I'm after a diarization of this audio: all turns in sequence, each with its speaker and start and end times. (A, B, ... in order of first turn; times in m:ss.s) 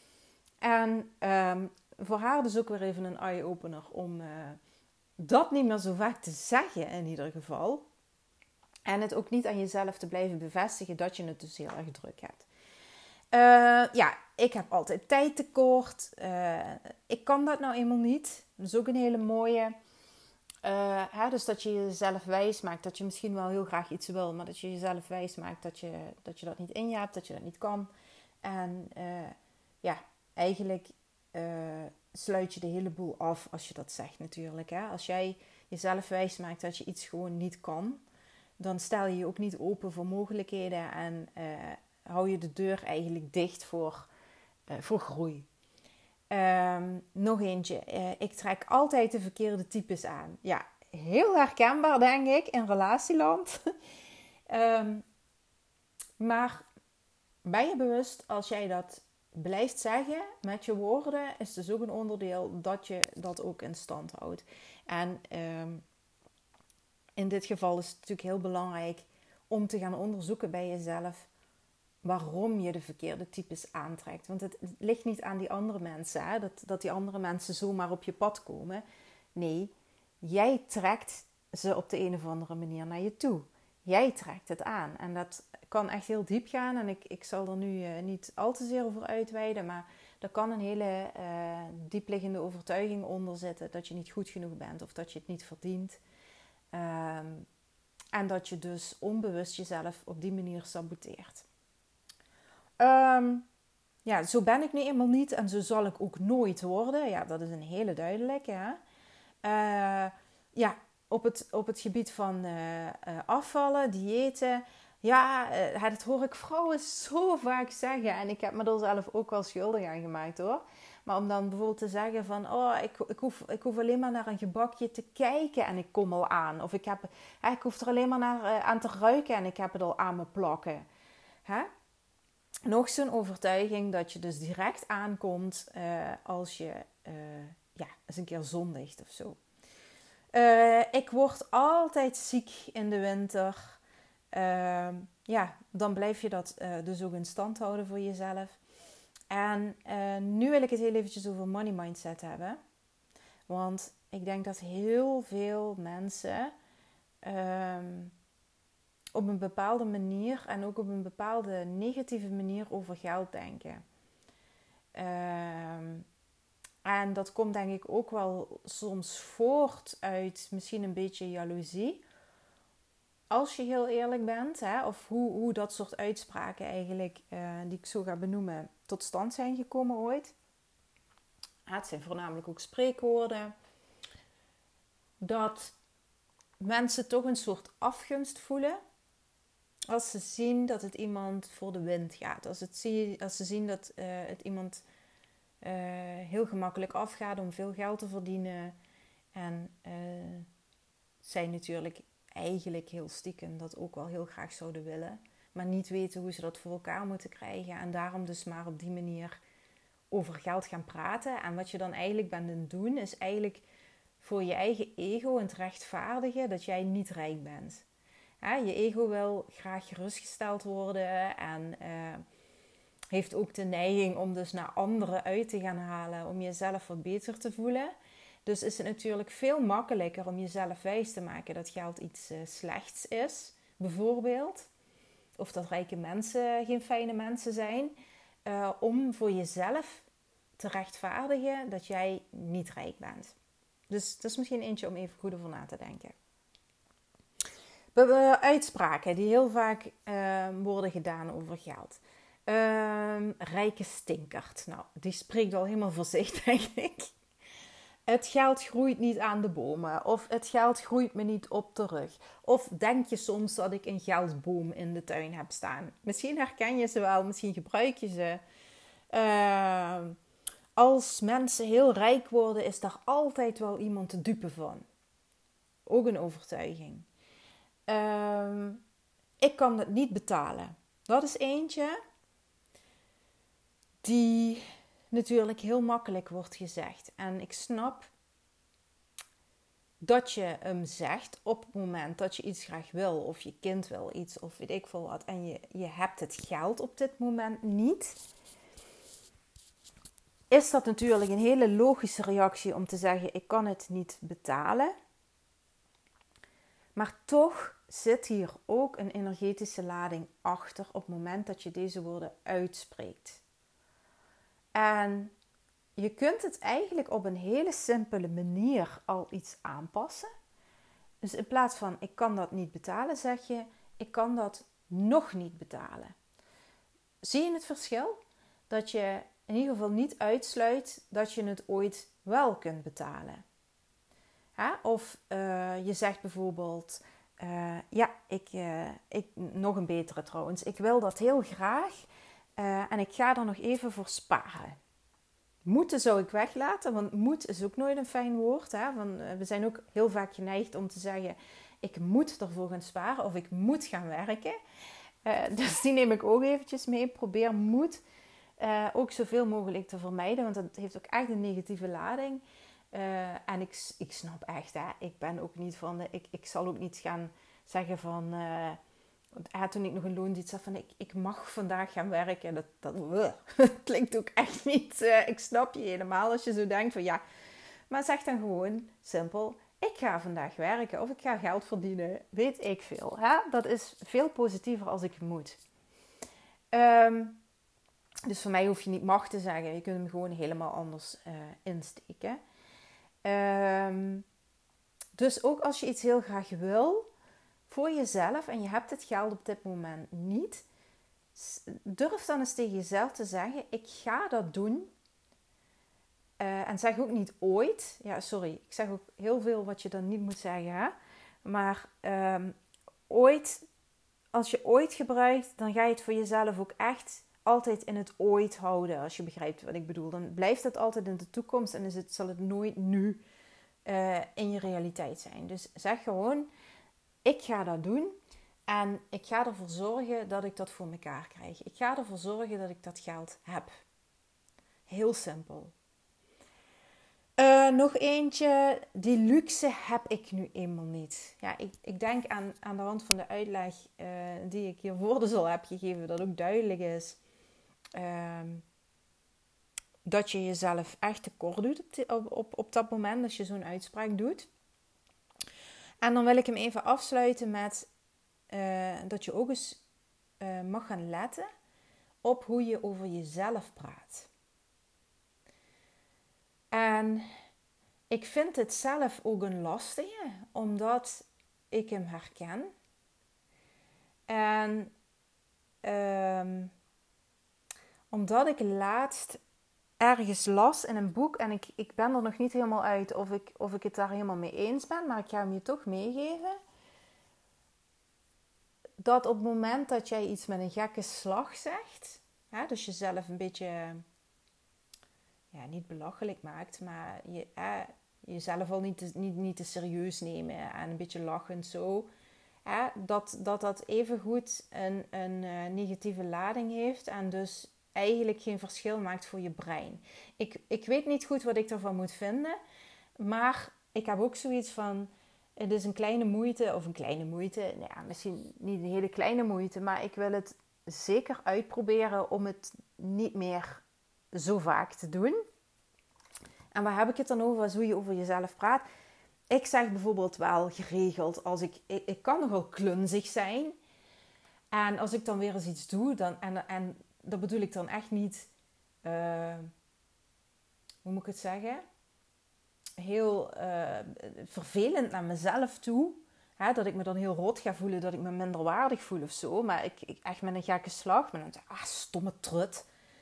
0:00.6-0:04.6 A
0:05.2-0:07.8 A
0:08.9-0:12.4 A
0:13.3-0:19.8 A
0:20.6-0:27.9 A
0:28.4-0:38.0 A
0:38.6-0:44.1 A
0:44.7-0:45.5 A
0:46.3-0:53.7 A
0:54.5-0:55.0 A
0:56.2-0:56.6 A
0:57.4-1:05.8 A
1:07.2-1:11.3 A
1:12.0-1:18.8 A
1:19.3-1:36.0 A
1:36.7-1:37.5 A
1:38.1-1:41.4 A
1:42.8-1:43.4 A
1:44.0-1:48.8 A
1:49.4-2:10.8 A
2:12.6-2:19.4 A
2:20.3-2:23.8 A
2:24.3-2:28.6 A
2:29.3-2:32.6 A
2:33.5-2:36.5 A
2:37.2-2:38.1 A
2:39.1-2:43.8 A
2:44.9-2:46.0 A
2:46.8-2:52.0 A
2:53.3-3:00.3 A
3:01.7-3:03.5 A
3:05.2-3:05.8 A
3:06.6-3:08.8 A
3:09.9-3:14.8 A
3:15.6-3:18.8 A
3:19.3-3:20.5 A
3:21.2-3:29.4 A
3:30.1-3:33.6 A
3:34.2-3:37.8 A
3:38.4-3:42.2 A
3:43.1-3:47.9 A
3:48.4-3:54.7 A
3:55.4-3:57.9 A
3:58.4-4:00.0 A
4:00.6-4:03.3 A
4:03.9-4:06.1 A
4:07.9-4:17.1 A
4:18.1-4:28.4 A
4:29.1-4:30.2 A
4:30.8-4:34.8 A
4:35.8-4:37.0 A
4:37.9-4:38.8 A
4:39.4-4:42.0 A
4:44.0-4:48.1 A
4:50.0-4:58.2 A
5:00.5-5:04.9 A
5:07.0-5:13.4 A
5:14.8-5:15.3 A
5:16.0-5:20.3 A
5:21.2-5:26.1 A
5:27.2-5:28.2 A
5:28.7-5:33.4 A
5:34.6-5:44.8 A
5:45.6-5:54.6 A
5:55.2-5:58.0 A
5:58.6-6:08.8 A
6:09.4-6:17.2 A
6:17.9-6:25.6 A
6:26.7-6:27.4 A
6:28.3-6:32.4 A
6:33.2-6:34.2 A
6:35.2-6:37.1 A
6:37.7-6:40.6 A
6:41.4-6:44.9 A
6:46.4-6:52.5 A
6:53.1-6:53.6 A
6:54.3-7:03.2 A
7:03.8-7:06.5 A
7:07.2-7:08.2 A
7:08.7-7:13.7 A
7:14.9-7:15.7 A
7:17.4-7:27.2 A
7:28.0-7:28.6 A
7:30.0-7:34.5 A
7:36.0-7:37.9 A
7:38.5-7:39.8 A
7:40.4-7:41.5 A
7:42.2-7:44.3 A
7:46.7-7:47.3 A
7:48.1-7:52.7 A
7:54.3-7:54.9 A
7:55.8-7:56.7 A
7:58.1-7:59.4 A
8:00.0-8:06.6 A
8:09.0-8:14.0 A
8:15.5-8:22.1 A
8:22.6-8:32.6 A
8:33.2-8:45.4 A
8:46.7-8:48.8 A
8:49.5-8:53.8 A
8:54.7-8:58.5 A
8:59.0-8:59.7 A
9:01.0-9:01.8 A
9:03.0-9:12.9 A